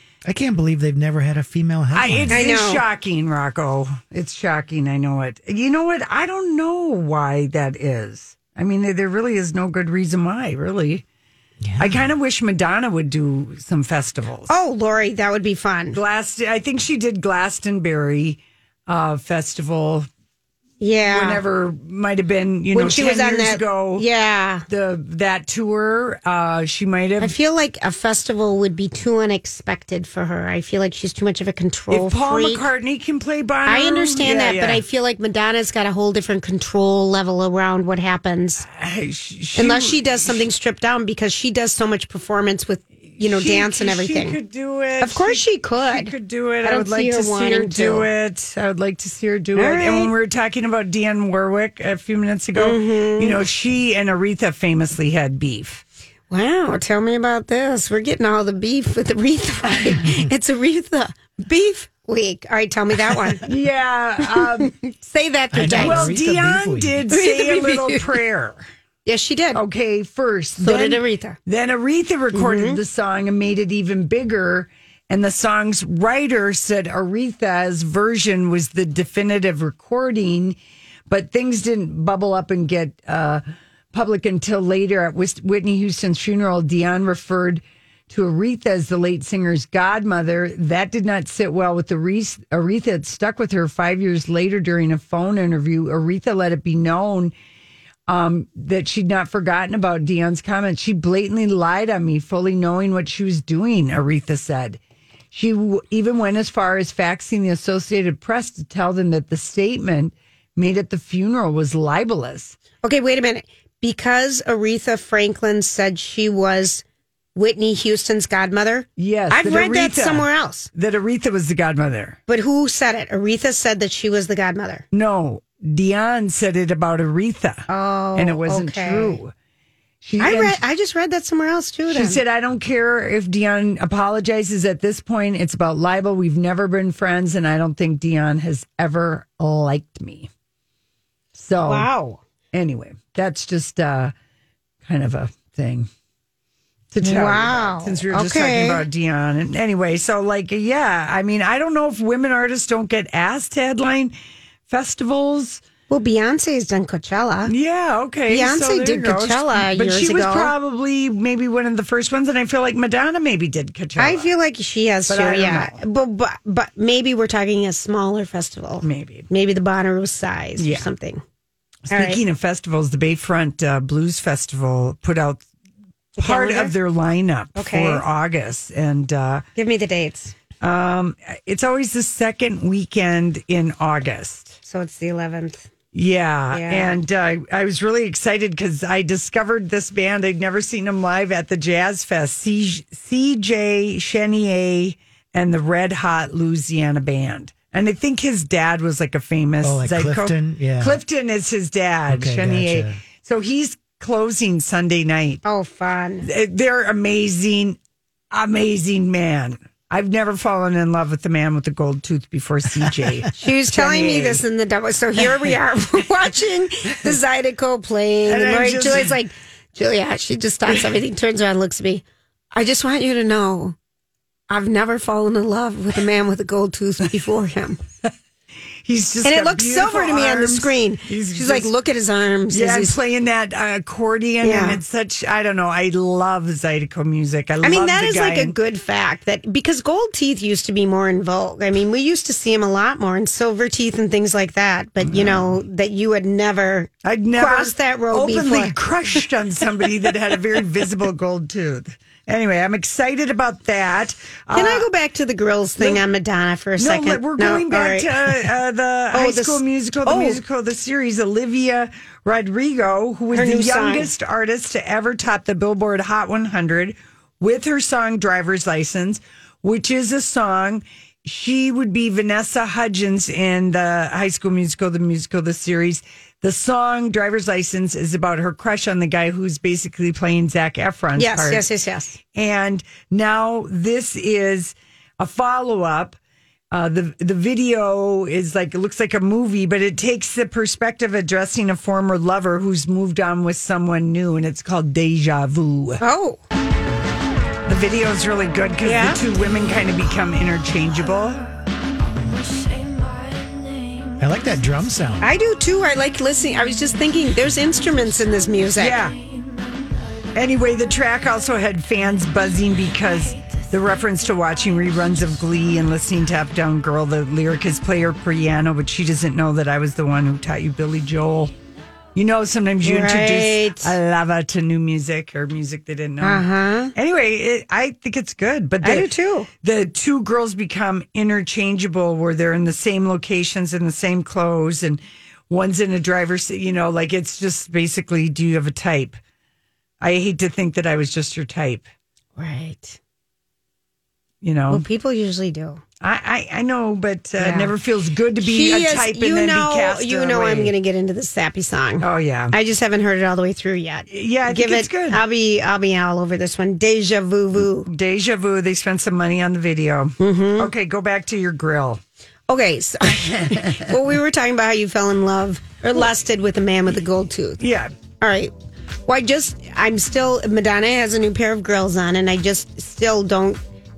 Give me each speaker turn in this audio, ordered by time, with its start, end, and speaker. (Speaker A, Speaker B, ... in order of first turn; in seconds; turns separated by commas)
Speaker A: 0.2-2.5, Speaker B: 1.9-11.0, Speaker C: 2.3-2.9, Speaker A: 11.6-12.0, Speaker B: 11.8-14.5, Speaker C: 14.5-16.0, Speaker B: 15.9-20.1, Speaker C: 20.8-21.4, Speaker B: 21.1-24.1, Speaker C: 22.7-24.7, Speaker B: 24.7-27.3, Speaker C: 27.2-32.6, Speaker B: 31.9-34.8, Speaker C: 33.7-38.7, Speaker B: 38.7-40.4, Speaker C: 39.6-44.4, Speaker B: 43.1-55.8, Speaker C: 45.0-48.1, Speaker C: 49.5-50.1, Speaker C: 52.5-53.4, Speaker C: 56.3-63.5, Speaker B: 63.5-64.7, Speaker C: 64.4-66.2, Speaker A: 65.5-67.1, Speaker B: 65.7-68.7, Speaker C: 67.1-68.2, Speaker C: 69.1-69.6, Speaker B: 69.5-80.6, Speaker C: 70.6-71.4, Speaker C: 72.3-72.8, Speaker B: 81.1-97.3, Speaker B: 98.1-104.8, Speaker B: 105.3-112.6, Speaker C: 112.8-116.8, Speaker C: 117.4-120.7, Speaker B: 119.0-122.2, Speaker C: 122.3-124.9, Speaker B: 124.9-129.3, Speaker C: 127.7-129.2, Speaker B: 130.0-130.6, Speaker C: 130.2-132.2, Speaker B: 131.9-140.3, Speaker B: 141.3-141.9, Speaker C: 141.7-142.2, Speaker B: 142.5-144.1, Speaker B: 144.8-145.9, Speaker B: 146.9-154.2, Speaker C: 147.0-148.8, Speaker B: 154.7-155.6, Speaker C: 155.9-157.5, Speaker B: 157.5-164.3, Speaker C: 158.3-160.5, Speaker C: 164.0-171.2, Speaker B: 165.1-165.8, Speaker B: 168.8-169.3, Speaker B: 170.6-170.9, Speaker B: 171.9-175.4, Speaker C: 171.9-172.2, Speaker B: 176.2-179.4, Speaker C: 176.2-176.8, Speaker C: 177.6-178.1, Speaker C: 179.6-180.4, Speaker B: 180.6-184.6, Speaker C: 184.6-185.7, Speaker B: 185.9-205.4, Speaker C: 186.5-187.0, Speaker A: 199.6-201.0, Speaker A: 202.1-203.0, Speaker C: 205.4-206.3, Speaker B: 206.2-207.8, Speaker B: 208.3-214.4, Speaker C: 213.3-223.8, Speaker B: 218.3-219.1, Speaker C: 224.5-227.8, Speaker B: 228.8-231.7, Speaker C: 229.2-233.0, Speaker B: 232.5-238.6, Speaker C: 234.4-234.8, Speaker C: 237.6-248.7, Speaker B: 245.1-245.5, Speaker B: 247.0-254.9, Speaker C: 254.5-258.5, Speaker B: 255.8-256.0, Speaker B: 256.8-281.7, Speaker C: 259.1-260.4, Speaker C: 263.3-264.1, Speaker C: 281.2-282.2, Speaker B: 282.3-286.2, Speaker B: 286.7-296.0, Speaker C: 296.0-296.4, Speaker B: 297.7-301.5, Speaker C: 298.8-299.2, Speaker A: 304.2-305.3, Speaker C: 305.2-309.0, Speaker B: 308.8-309.1, Speaker B: 310.4-321.5, Speaker B: 322.1-329.1, Speaker C: 322.8-323.9, Speaker C: 326.2-326.9, Speaker C: 328.8-329.5, Speaker B: 329.6-339.2, Speaker B: 340.0-341.9, Speaker C: 342.4-343.0, Speaker B: 344.4-344.9, Speaker C: 344.7-345.8, Speaker B: 346.0-350.7, Speaker C: 347.4-347.7, Speaker C: 348.4-357.9, Speaker B: 352.0-352.6, Speaker B: 354.1-355.2, Speaker B: 357.9-362.0, Speaker C: 360.2-360.7, Speaker C: 362.5-367.6, Speaker B: 367.6-367.9, Speaker C: 368.1-368.5, Speaker C: 369.1-373.6